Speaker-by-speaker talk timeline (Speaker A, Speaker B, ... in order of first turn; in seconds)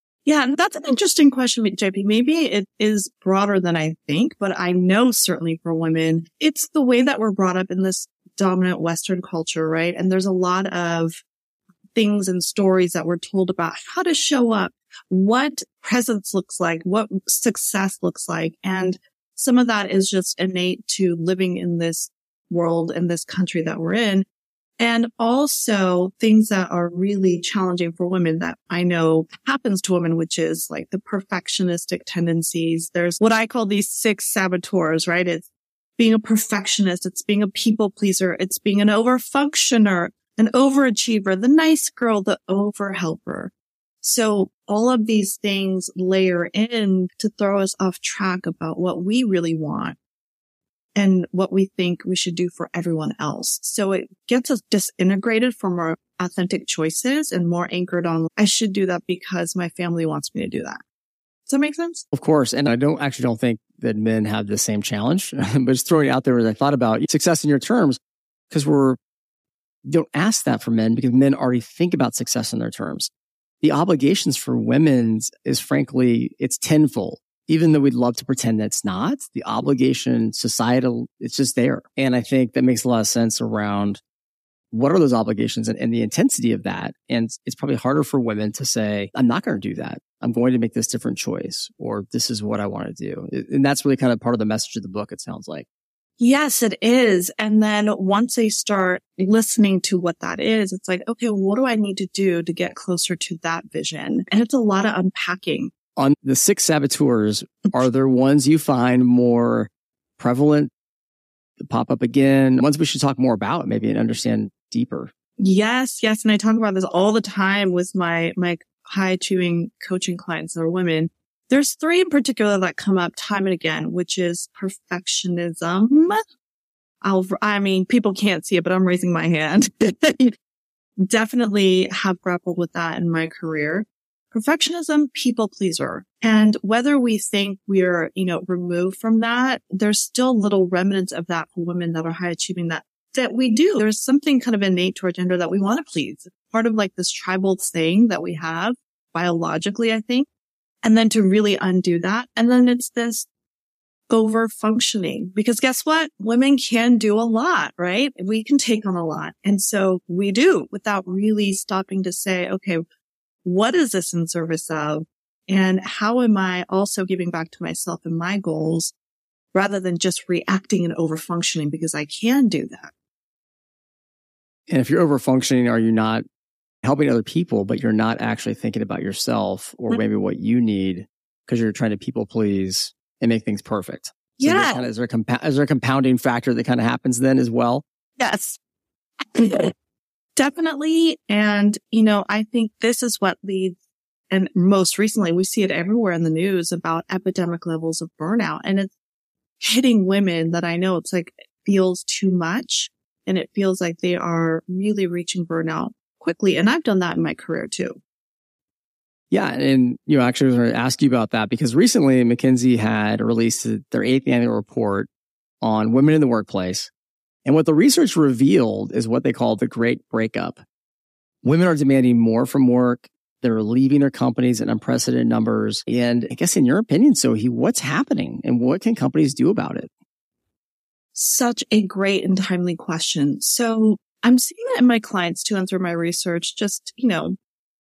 Speaker A: 0.2-11.2, 11.9-24.2, 24.8-35.4, 36.0-50.0, 51.0-60.8, 61.5-62.0, 96.2-105.7, 115.4-126.2, 127.0-130.3, 131.0-150.3, 150.8-153.3, 154.1-162.8, 163.4-168.9, 169.5-172.9, 184.4-184.8, 188.2-188.6, 189.3-189.7, 190.3-193.8, 194.3-198.9, 199.6-208.0, 231.1-237.3
Speaker B: 62.1-68.0, 68.5-69.0, 69.8-73.1, 73.6-84.0, 84.7-95.7, 106.0-110.7, 111.6-115.1, 174.7-176.2, 176.8-187.8, 209.3-215.1, 215.6-216.9, 217.4-220.6, 221.4-229.9